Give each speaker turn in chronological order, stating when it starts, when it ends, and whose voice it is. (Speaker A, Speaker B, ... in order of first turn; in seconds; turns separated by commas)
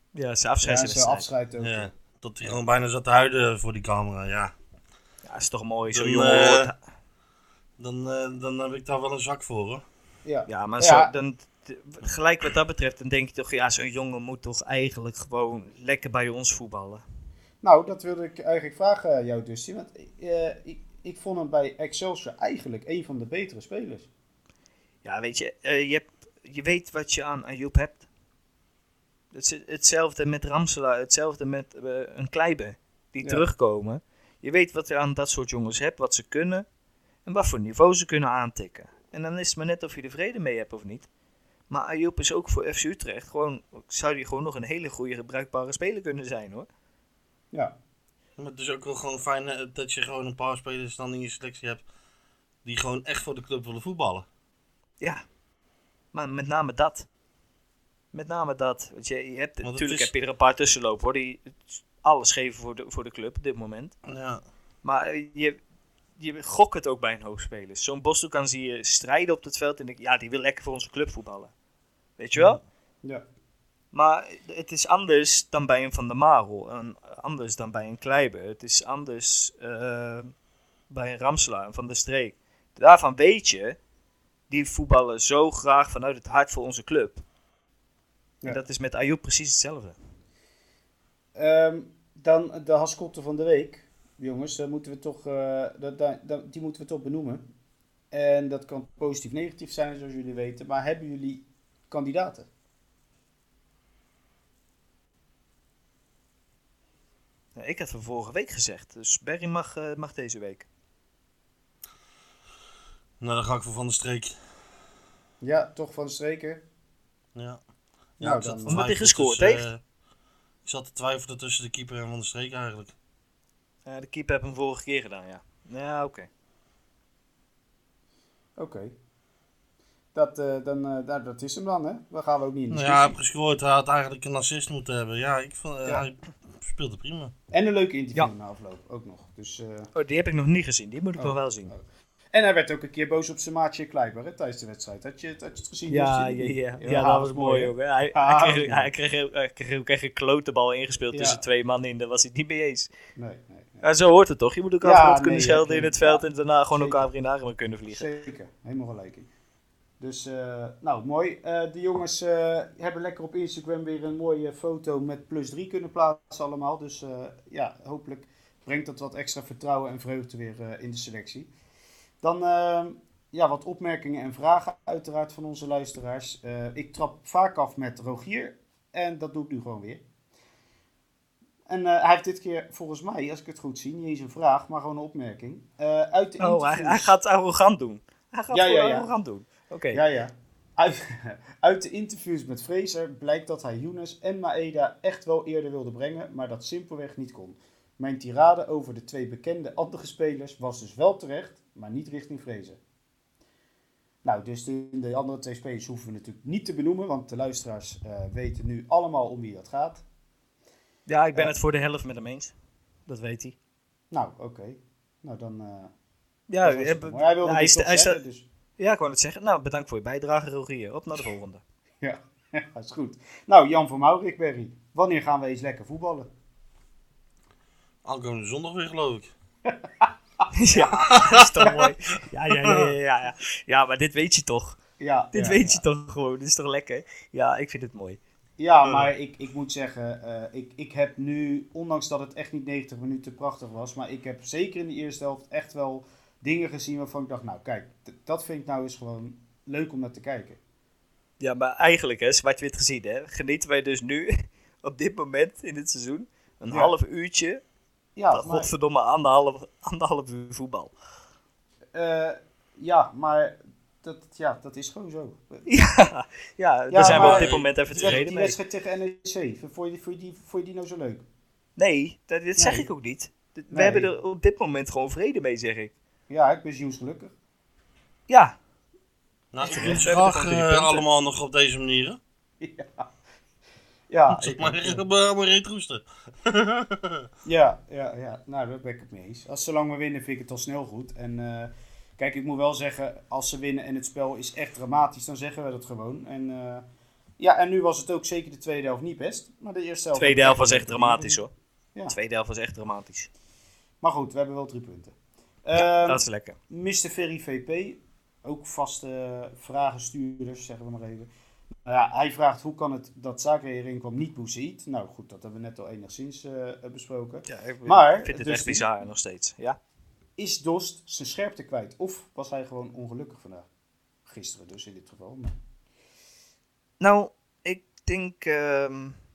Speaker A: 0.1-1.3, Speaker B: 0.6-1.9, Speaker C: 1.6-4.5, Speaker A: 5.2-6.8, Speaker C: 5.9-6.7, Speaker C: 7.8-9.8, Speaker B: 10.2-11.1, Speaker A: 10.5-17.0, Speaker B: 17.6-24.1, Speaker A: 25.0-28.0, Speaker A: 29.3-36.6, Speaker A: 37.2-41.1, Speaker A: 41.7-46.7, Speaker C: 48.4-51.8, Speaker C: 52.6-54.2, Speaker A: 56.1-57.1, Speaker A: 58.1-63.9, Speaker C: 59.6-60.1, Speaker C: 64.0-64.4, Speaker A: 64.8-65.6, Speaker A: 66.2-71.5, Speaker A: 72.2-72.6, Speaker A: 73.9-80.3, Speaker A: 80.9-83.8, Speaker A: 84.5-87.2, Speaker A: 88.4-90.0, Speaker B: 91.3-97.4, Speaker B: 98.1-102.5, Speaker A: 107.5-110.7, Speaker C: 113.2-114.3, Speaker B: 115.4-116.6, Speaker C: 117.3-117.6, Speaker C: 118.2-119.8, Speaker B: 118.2-118.8, Speaker A: 118.7-119.7, Speaker C: 120.6-122.9, Speaker A: 123.8-126.3, Speaker B: 128.6-128.9, Speaker B: 130.1-133.2, Speaker C: 132.7-137.3, Speaker B: 137.5-139.9, Speaker A: 139.9-141.7, Speaker B: 141.2-148.9, Speaker A: 145.9-152.9, Speaker B: 151.1-151.4, Speaker B: 153.2-153.8, Speaker A: 153.8-158.1, Speaker B: 154.8-157.1, Speaker B: 157.9-159.3, Speaker B: 160.0-171.5, Speaker B: 172.2-180.0, Speaker B: 181.7-187.1, Speaker A: 186.4-190.0, Speaker B: 188.5-189.1, Speaker B: 189.9-202.8, Speaker B: 204.2-210.0, Speaker A: 211.1-212.5, Speaker A: 213.1-213.6, Speaker B: 214.1-215.9, Speaker A: 216.5-218.2, Speaker B: 216.6-218.4, Speaker A: 218.8-221.6, Speaker B: 222.0-226.3, Speaker C: 228.0-229.3, Speaker B: 229.6-230.8, Speaker A: 230.5-234.8, Speaker C: 231.0-231.7, Speaker B: 235.0-235.8, Speaker A: 235.3-238.2, Speaker B: 238.6-250.6, Speaker A: 251.4-257.6, Speaker B: 258.1-258.7, Speaker A: 258.3-260.9, Speaker B: 261.9-265.7, Speaker A: 265.6-268.6, Speaker B: 266.9-271.2, Speaker C: 267.0-268.2, Speaker A: 271.8-275.9, Speaker B: 272.6-272.9, Speaker B: 273.7-274.1, Speaker B: 276.3-277.3, Speaker A: 278.3-278.6, Speaker C: 279.5-282.2, Speaker A: 279.6-281.0, Speaker B: 279.6-280.1, Speaker B: 282.6-283.1, Speaker B: 284.1-285.0, Speaker C: 284.3-287.3, Speaker B: 287.4-296.8, Speaker B: 297.4-301.4, Speaker A: 300.1-301.5, Speaker A: 302.1-303.3, Speaker B: 304.0-311.3, Speaker A: 305.7-306.6, Speaker B: 311.8-318.9, Speaker A: 317.5-319.8, Speaker B: 320.4-323.6, Speaker B: 324.2-325.6, Speaker A: 327.0-329.2